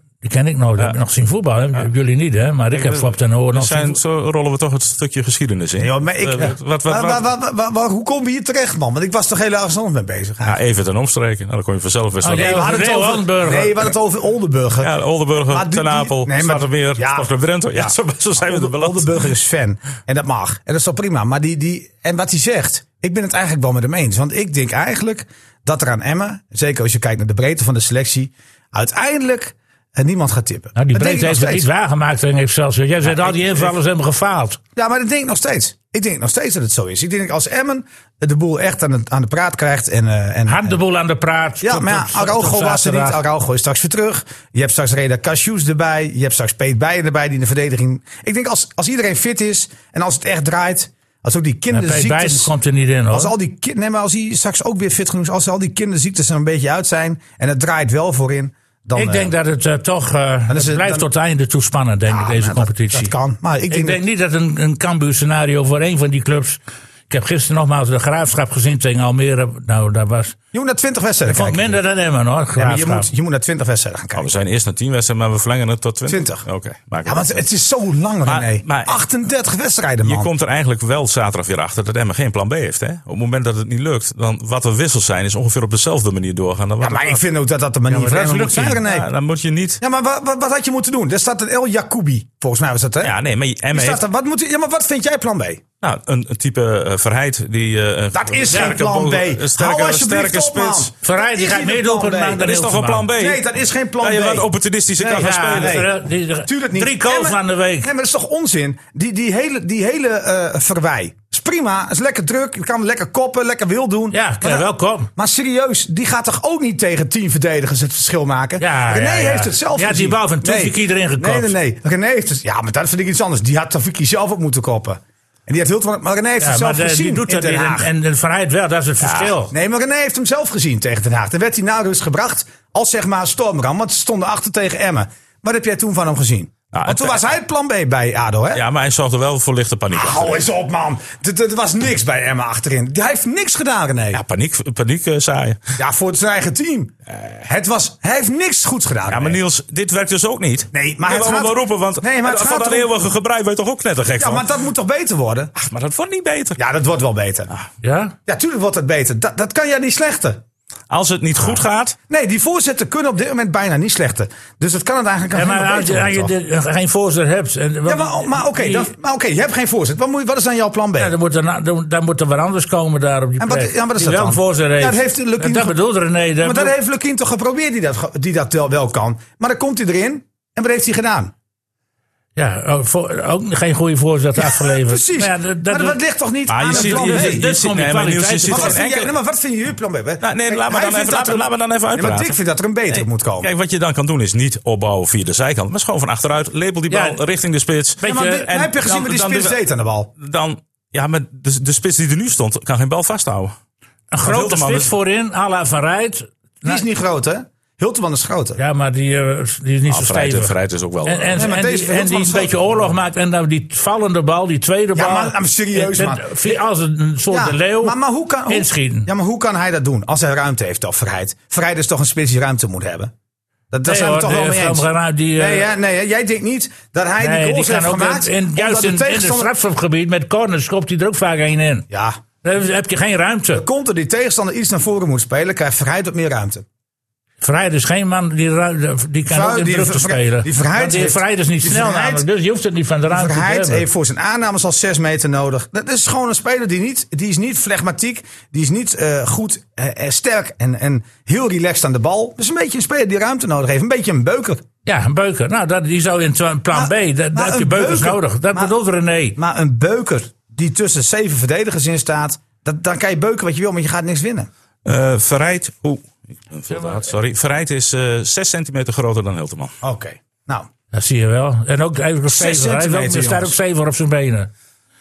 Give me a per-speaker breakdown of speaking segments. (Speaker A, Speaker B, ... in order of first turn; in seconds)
Speaker A: 0.2-4.0, 12.2-13.9, 30.8-34.6, 40.5-43.2, 51.7-53.3, 58.9-63.1, 63.7-70.3, 71.2-73.1, 87.9-88.8, 98.5-98.8, 101.0-103.1, 105.0-107.9, 114.1-115.1, 118.6-121.5, 126.4-129.5, 157.8-158.1, 165.3-168.9, 171.0-176.7, 182.3-186.0, 186.6-188.8, 196.9-197.2, 198.0-198.5, 204.1-206.8, 208.6-219.1, 223.8-225.7, 227.2-231.8, 232.4-233.6, 237.4-243.8, 254.8-259.4, 270.9-274.5
Speaker B: 2.7-7.2, 10.4-12.8, 14.8-19.2, 74.1-77.4, 78.2-79.0, 80.0-87.2, 88.7-89.8, 93.0-94.0, 95.8-100.9, 102.4-103.4, 104.0-105.9, 129.0-129.3, 136.7-137.2, 138.5-140.4, 144.1-145.7, 149.1-154.5, 155.6-156.6, 160.9-161.9, 186.5-189.1, 190.2-192.3, 192.9-199.6, 200.2-203.5, 204.2-204.9, 209.9-211.4, 264.8-269.7
Speaker C: 5.8-10.6, 12.3-14.9, 15.5-31.7, 34.8-40.8, 41.6-52.5, 53.1-59.3, 60.5-61.1, 62.1-64.0, 70.5-71.8, 72.5-74.3, 76.1-76.5, 77.0-80.3, 86.8-89.1, 89.8-93.1, 93.7-95.6, 98.1-102.5, 103.1-104.5, 105.0-105.9, 106.5-127.9, 129.5-138.6, 139.9-144.2, 145.8-149.4, 150.7-153.1, 154.2-155.5, 156.6-157.5, 158.3-160.4, 162.1-166.3, 167.8-171.1, 173.4-175.8, 176.4-181.3, 184.4-187.5, 188.5-193.5, 198.0-200.1, 206.6-208.6, 211.4-212.7, 214.9-216.6, 217.3-223.1, 223.7-229.5, 231.9-232.2, 233.5-236.6, 239.2-242.2, 243.1-254.6, 256.7-258.7, 259.4-264.5, 269.8-270.7, 272.3-273.5